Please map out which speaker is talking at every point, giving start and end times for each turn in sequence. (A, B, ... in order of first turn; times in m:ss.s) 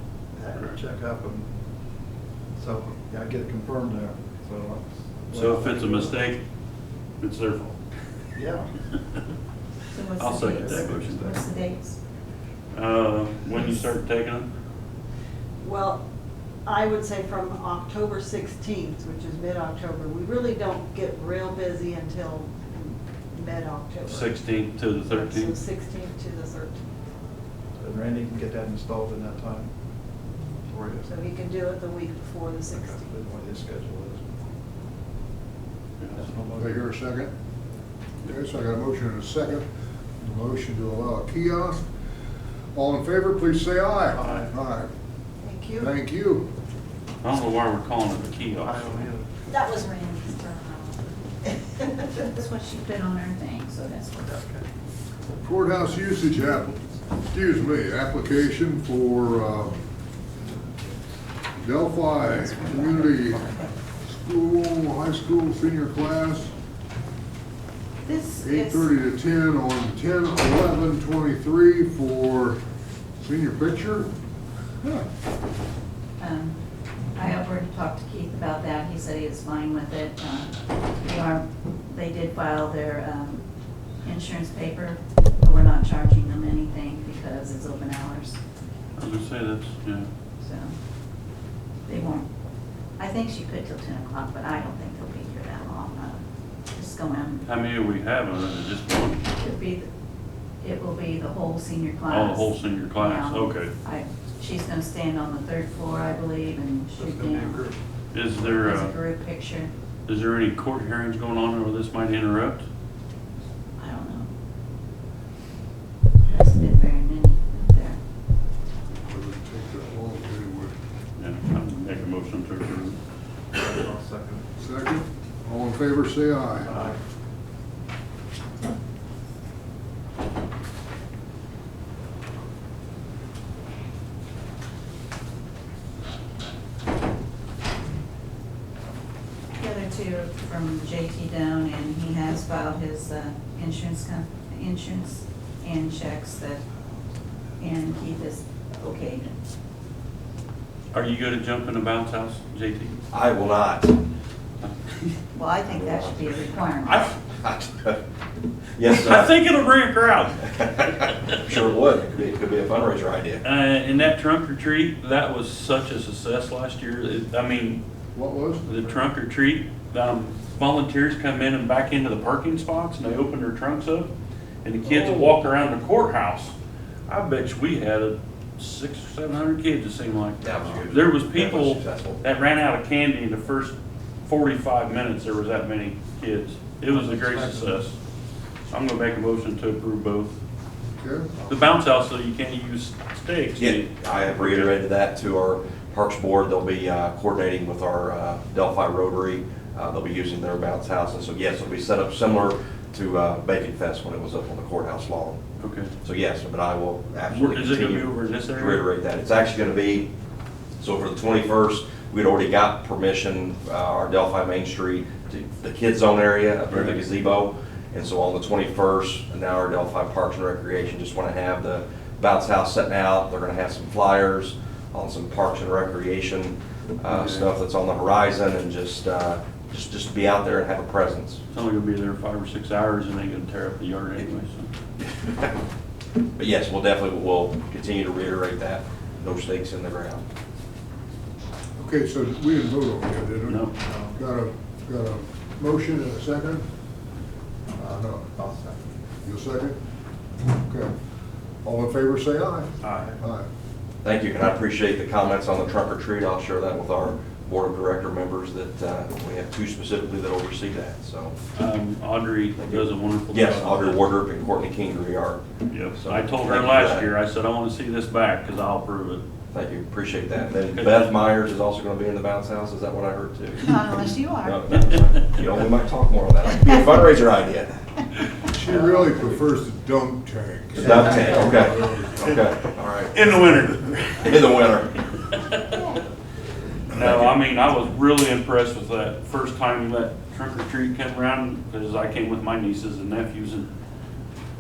0:00.3-0:01.5 A
0:02.6-0:06.2 A
0:05.3-0:06.4 B
0:07.2-0:07.8 B
0:08.4-0:08.7 A
0:09.9-0:12.0 C
0:10.2-0:11.2 B
0:10.4-0:11.4 A
0:12.7-0:14.5 B
0:13.5-0:13.9 C
0:15.6-0:16.0 D
0:16.6-0:24.4 D
0:24.1-0:25.6 B
0:25.1-0:26.8 D
0:27.8-0:29.7 A
0:30.7-0:31.2 A
0:31.0-0:33.2 D
0:32.7-0:34.4 A
0:36.0-0:36.3 B
0:36.1-0:36.8 A
0:36.6-0:37.3 E
0:38.3-0:39.6 E
0:40.2-0:41.9 E
0:42.8-0:44.9 E
0:44.1-0:44.5 A
0:45.4-0:45.9 D
0:45.8-0:46.5 E
0:47.2-0:49.1 B
0:48.6-0:49.3 A
0:49.5-0:52.2 D
0:49.8-0:50.8 C
0:52.2-0:54.3 C
0:54.2-0:54.7 A
0:55.4-0:56.7 E
0:57.2-0:59.8 E
1:01.6-1:03.5 E
1:02.2-1:03.7 C
1:04.0-1:06.5 E
1:08.0-1:08.9 C
1:08.4-1:12.6 E
1:13.2-1:14.1 E
1:16.2-1:16.6 C
1:17.2-1:23.4 C
1:24.0-1:28.4 C
1:29.0-1:30.1 B
1:30.4-1:30.7 C
1:31.9-1:32.3 C
1:33.0-1:36.2 C
1:36.7-1:37.4 C
1:37.4-1:39.2 B
1:39.3-1:39.9 C
1:40.6-1:47.6 C
1:42.1-1:43.7 B
1:47.0-1:47.8 A
1:48.1-1:49.0 B
1:48.5-1:49.7 C
1:50.1-1:52.6 B
1:53.8-1:54.3 C
1:56.2-1:58.0 C
1:59.0-2:00.7 E
2:01.2-2:03.0 B
2:03.5-2:04.5 A
2:04.6-2:06.8 E
2:06.6-2:07.0 A
2:19.6-2:26.6 C
2:27.6-2:29.4 C
2:30.9-2:33.0 B
2:33.1-2:34.0 F
2:34.6-2:35.2 B
2:35.3-2:37.1 C
2:35.7-2:36.2 F
2:36.8-2:37.2 B
2:37.2-2:38.0 F
2:38.8-2:39.3 F
2:38.9-2:41.1 B
2:40.4-2:43.4 F
2:43.4-2:47.8 B
2:48.1-2:48.7 E
2:48.6-2:54.1 B
2:54.6-2:56.6 B
2:57.1-3:03.8 B
3:00.4-3:02.2 F
3:04.3-3:08.0 B
3:06.9-3:07.8 A
3:08.7-3:10.4 B
3:11.0-3:11.3 E
3:11.4-3:11.8 A
3:11.5-3:14.7 B
3:13.6-3:25.4 F
3:25.6-3:25.9 B
3:26.0-3:30.1 F
3:27.3-3:28.8 B
3:30.8-3:51.4 F
3:36.7-3:37.1 B
3:47.1-3:47.5 B
3:51.5-3:54.7 B
3:55.0-3:55.6 F
3:56.4-4:00.2 F
4:01.8-4:06.7 E
4:03.5-4:03.7 B
4:03.8-4:04.2 A
4:07.8-4:08.8 A
4:07.9-4:08.2 E
4:09.2-4:09.8 E
4:10.5-4:10.9 E
4:11.6-4:13.5 E
4:12.8-4:13.2 A
4:14.0-4:21.4 F
4:21.6-4:24.1 B
4:22.6-4:25.4 F
4:25.7-4:29.2 B
4:25.9-4:27.1 F
4:29.5-4:33.7 F
4:30.7-4:31.2 B
4:33.6-4:34.7 C
4:34.4-4:37.8 F
4:36.5-4:36.8 C
4:38.5-4:42.1 E
4:40.8-4:43.2 F
4:43.1-4:45.8 B
4:44.2-4:44.9 F
4:45.7-4:46.0 C
4:46.9-4:53.7 B
4:46.9-4:47.3 F